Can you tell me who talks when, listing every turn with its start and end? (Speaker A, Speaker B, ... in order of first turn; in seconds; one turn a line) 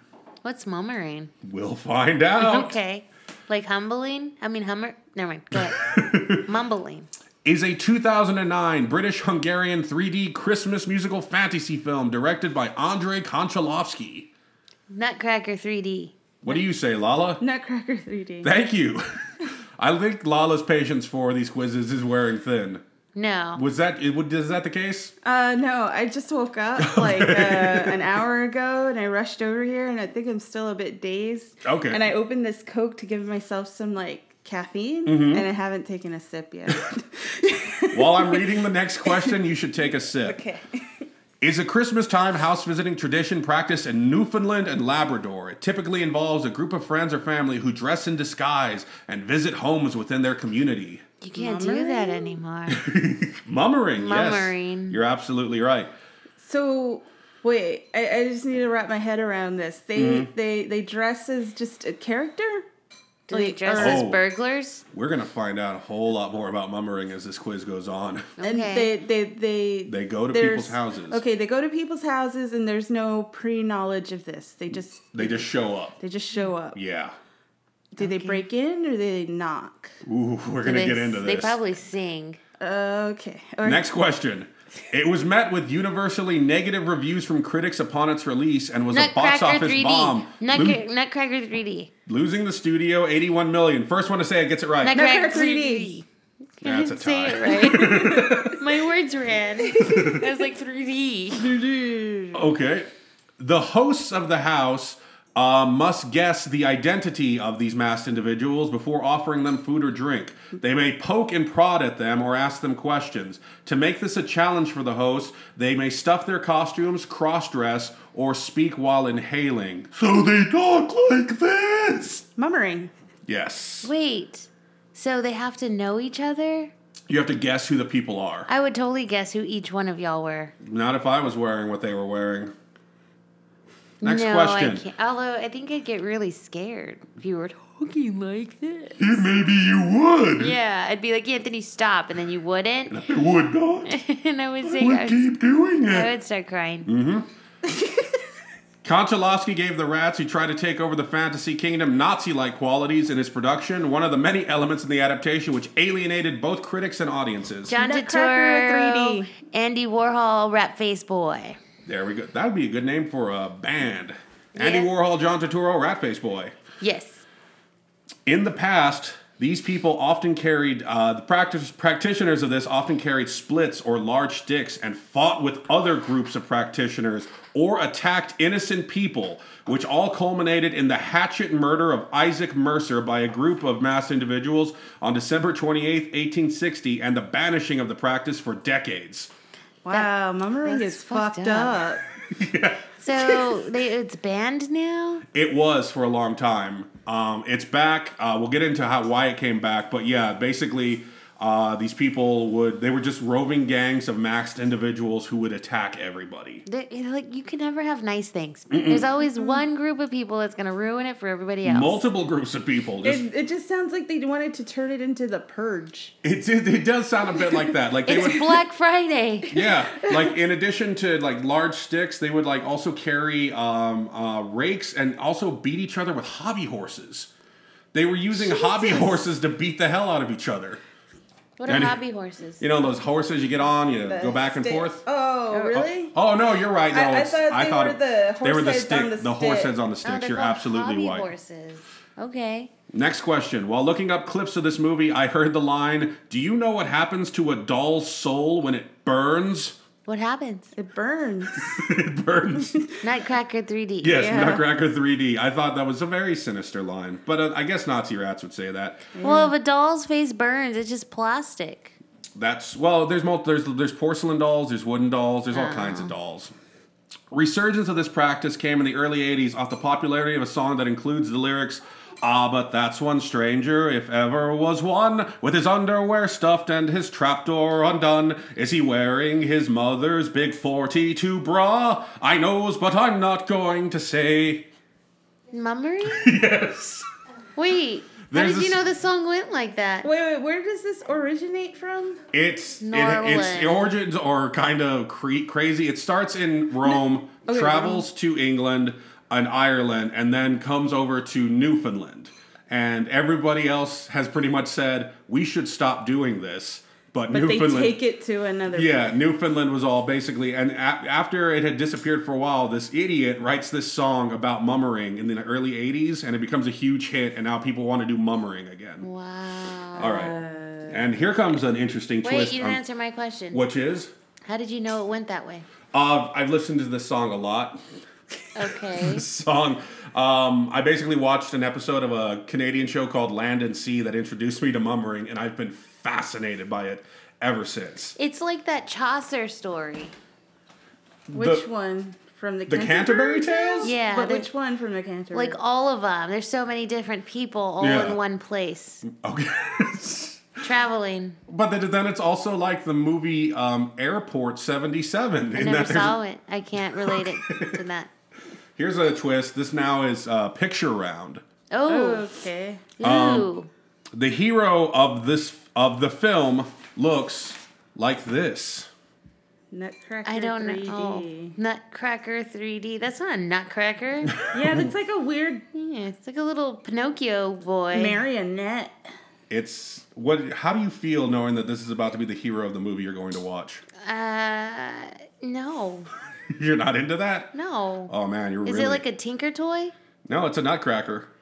Speaker A: 0.4-1.3
Speaker B: 1.4-2.8
Speaker A: 2.4-7.1
Speaker B: 5.5-6.4
Speaker B: 7.4-14.3
Speaker A: 14.9-16.6
Speaker B: 16.4-17.4
Speaker C: 17.4-18.5
Speaker B: 18.4-19.2
Speaker B: 19.8-22.8
Speaker A: 23.1-23.6
Speaker B: 23.5-25.1
Speaker C: 25.2-38.4
Speaker B: 26.8-28.1
Speaker B: 31.6-32.0
Speaker B: 35.1-35.5
Speaker B: 37.9-40.4
Speaker C: 39.1-39.3
Speaker C: 40.1-40.8
Speaker B: 41.4-51.0
Speaker A: 51.2-52.8
Speaker C: 51.3-52.4
Speaker B: 52.7-55.9
Speaker A: 54.0-55.0
Speaker C: 56.4-62.6
Speaker B: 60.0-60.3
Speaker A: 63.3-64.8
Speaker C: 63.3-64.0
Speaker B: 63.7-64.2
Speaker B: 64.9-68.4
Speaker A: 68.4-68.9
Speaker C: 68.4-76.8
Speaker B: 69.9-71.2
Speaker B: 75.1-76.0
Speaker B: 76.8-77.1
Speaker C: 77.9-79.9
Speaker A: 78.0-78.4
Speaker B: 80.0-81.6
Speaker A: 80.6-82.4
Speaker C: 82.6-83.9
Speaker B: 83.6-90.8
Speaker A: 88.9-91.9
Speaker B: 92.0-95.0
Speaker A: 94.8-96.0
Speaker C: 94.9-96.0
Speaker A: 96.6-101.5
Speaker B: 96.6-98.7
Speaker C: 97.7-98.5
Speaker C: 99.6-100.2
Speaker B: 99.8-100.2
Speaker C: 101.3-102.5
Speaker B: 102.3-102.9
Speaker B: 103.4-122.2
Speaker C: 122.4-122.9
Speaker B: 123.3-123.9
Speaker A: 123.8-126.7
Speaker B: 127.1-128.5
Speaker A: 128.5-130.5
Speaker B: 130.6-132.5
Speaker B: 134.0-134.8
Speaker A: 134.0-139.2
Speaker B: 139.0-140.6
Speaker A: 140.4-143.0
Speaker B: 142.9-143.9
Speaker A: 143.8-145.3
Speaker B: 144.6-146.1
Speaker A: 145.8-146.9
Speaker B: 146.8-147.3
Speaker C: 147.7-148.1
Speaker B: 148.8-157.7
Speaker A: 157.7-161.6
Speaker C: 157.7-159.3
Speaker B: 161.8-166.5
Speaker A: 164.5-164.9
Speaker A: 166.8-167.2
Speaker B: 168.2-189.3
Speaker C: 189.8-192.0
Speaker A: 190.6-191.8
Speaker B: 192.3-193.5
Speaker A: 193.0-195.2
Speaker B: 195.3-206.6
Speaker A: 206.7-212.0
Speaker B: 208.7-209.1
Speaker C: 209.4-209.6
Speaker B: 211.6-213.2
Speaker C: 213.0-216.1
Speaker B: 216.2-218.6
Speaker A: 218.1-219.6
Speaker B: 219.5-227.3
Speaker C: 220.0-220.3
Speaker B: 227.9-230.8
Speaker C: 228.3-229.2
Speaker A: 231.6-232.7
Speaker B: 231.7-232.0
Speaker B: 232.6-235.0
Speaker C: 234.1-236.1
Speaker B: 235.7-241.3
Speaker C: 236.9-239.7
Speaker A: 240.0-242.7
Speaker B: 242.9-249.8
Speaker A: 250.1-250.7
Speaker C: 250.7-251.8
Speaker B: 251.6-252.8
Speaker A: 253.0-254.4
Speaker B: 254.0-259.1
Speaker C: 254.1-254.7
Speaker C: 259.1-259.5
Speaker A: 259.2-262.0
Speaker B: 262.4-266.5
Speaker A: 265.5-266.1
Speaker B: 267.3-284.7
Speaker A: 285.5-286.3
Speaker B: 286.0-287.1
Speaker A: 287.6-290.1
Speaker B: 288.3-288.8
Speaker C: 290.0-292.2
Speaker B: 292.3-308.0
Speaker A: 292.8-293.8
Speaker C: 296.9-298.0
Speaker C: 307.3-309.1
Speaker B: 308.7-319.1
Speaker A: 319.0-320.3
Speaker B: 320.0-320.3
Speaker C: 320.0-321.0
Speaker B: 320.9-322.8
Speaker A: 322.2-323.6
Speaker B: 323.5-324.1
Speaker A: 324.4-325.7
Speaker B: 325.9-327.8
Speaker A: 328.5-329.2
Speaker B: 328.9-338.1
Speaker A: 338.2-340.1
Speaker B: 341.3-341.6
Speaker C: 341.3-345.6
Speaker B: 342.7-343.9
Speaker A: 343.8-344.5
Speaker A: 345.3-349.1
Speaker B: 347.8-348.2
Speaker B: 349.1-350.6
Speaker A: 350.6-351.4
Speaker B: 351.5-356.2
Speaker A: 355.6-358.1
Speaker B: 357.0-357.8
Speaker B: 358.8-361.4
Speaker A: 361.7-362.2
Speaker C: 361.9-362.9
Speaker A: 363.0-363.7
Speaker B: 363.0-363.5
Speaker B: 364.1-368.9
Speaker C: 369.7-371.6
Speaker A: 370.2-374.4
Speaker C: 374.5-375.6
Speaker A: 375.7-378.2
Speaker C: 377.9-379.0
Speaker B: 379.5-383.8
Speaker A: 384.0-386.1
Speaker B: 386.5-387.5
Speaker A: 387.5-388.1
Speaker B: 388.1-389.0
Speaker A: 388.6-389.9
Speaker B: 390.3-391.3